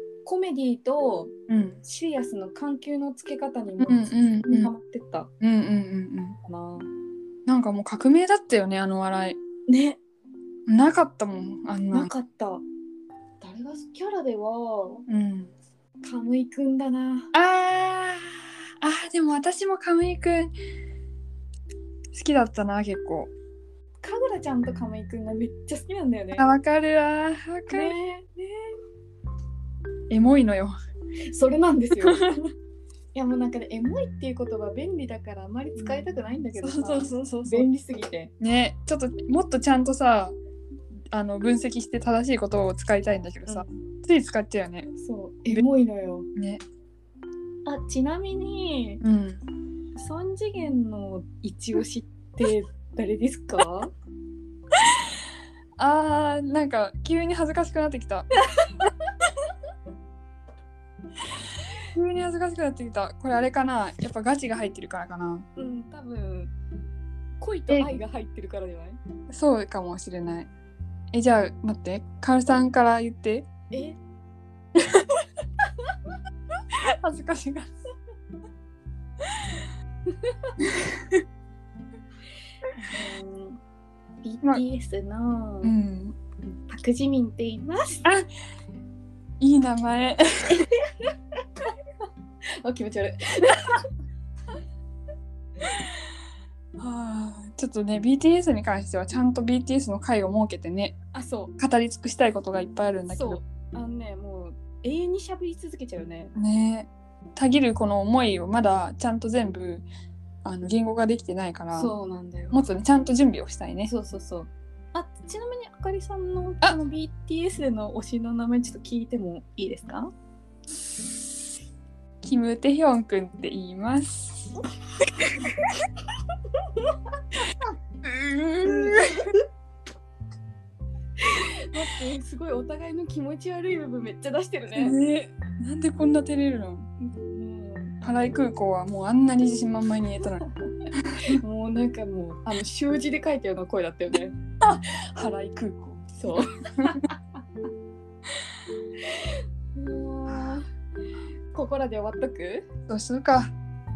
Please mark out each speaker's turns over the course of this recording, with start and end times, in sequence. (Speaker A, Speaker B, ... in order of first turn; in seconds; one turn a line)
Speaker A: 0.2-1.3
Speaker B: 1.5-1.8
Speaker A: 1.9-5.3
Speaker B: 3.8-4.7
Speaker B: 5.4-6.4
Speaker A: 6.4-6.9
Speaker B: 7.5-9.4
Speaker A: 9.7-10.0
Speaker B: 10.7-12.1
Speaker A: 11.9-12.6
Speaker A: 13.4-15.1
Speaker B: 15.1-15.5
Speaker A: 16.0-17.3
Speaker B: 17.3-20.5
Speaker B: 22.1-23.3
Speaker A: 24.0-26.5
Speaker B: 26.4-28.0
Speaker A: 27.7-28.7
Speaker B: 30.1-30.7
Speaker A: 31.3-32.3
Speaker B: 32.1-32.5
Speaker A: 33.1-38.3
Speaker B: 36.6-37.7
Speaker B: 38.4-40.4
Speaker B: 41.1-44.9
Speaker A: 43.5-43.8
Speaker A: 45.0-46.3
Speaker B: 46.4-46.6
Speaker A: 47.7-49.0
Speaker B: 49.0-49.5
Speaker A: 50.0-53.9
Speaker B: 55.8-58.3
Speaker A: 58.5-58.9
Speaker B: 61.9-65.5
Speaker A: 65.6-66.5
Speaker A: 67.4-69.0
Speaker B: 67.7-67.9
Speaker B: 69.3-70.5
Speaker B: 71.1-73.5
Speaker A: 73.7-74.0
Speaker B: 74.8-75.2
Speaker B: 76.7-77.7
Speaker A: 80.1-80.5
Speaker B: 80.6-81.2
Speaker A: 82.9-83.6
Speaker A: 84.2-85.8
Speaker B: 85.6-86.2
Speaker A: 86.7-88.1
Speaker B: 89.4-90.8
Speaker A: 92.6-93.9
Speaker B: 96.8-101.0
Speaker A: 101.1-101.5
Speaker B: 101.6-103.4
Speaker A: 103.1-106.3
Speaker B: 106.4-109.9
Speaker B: 110.4-111.9
Speaker A: 111.8-112.7
Speaker B: 112.5-113.9
Speaker A: 113.8-120.1
Speaker B: 122.2-124.5
Speaker B: 125.4-125.7
Speaker B: 128.0-129.4
Speaker A: 128.6-129.4
Speaker A: 131.2-135.0
Speaker B: 134.8-136.9
Speaker A: 137.0-138.0
Speaker B: 138.0-141.4
Speaker A: 141.3-144.4
Speaker B: 144.6-147.0
Speaker A: 146.2-147.2
Speaker A: 149.1-150.7
Speaker B: 150.3-150.6
Speaker A: 151.5-152.7
Speaker B: 152.9-153.5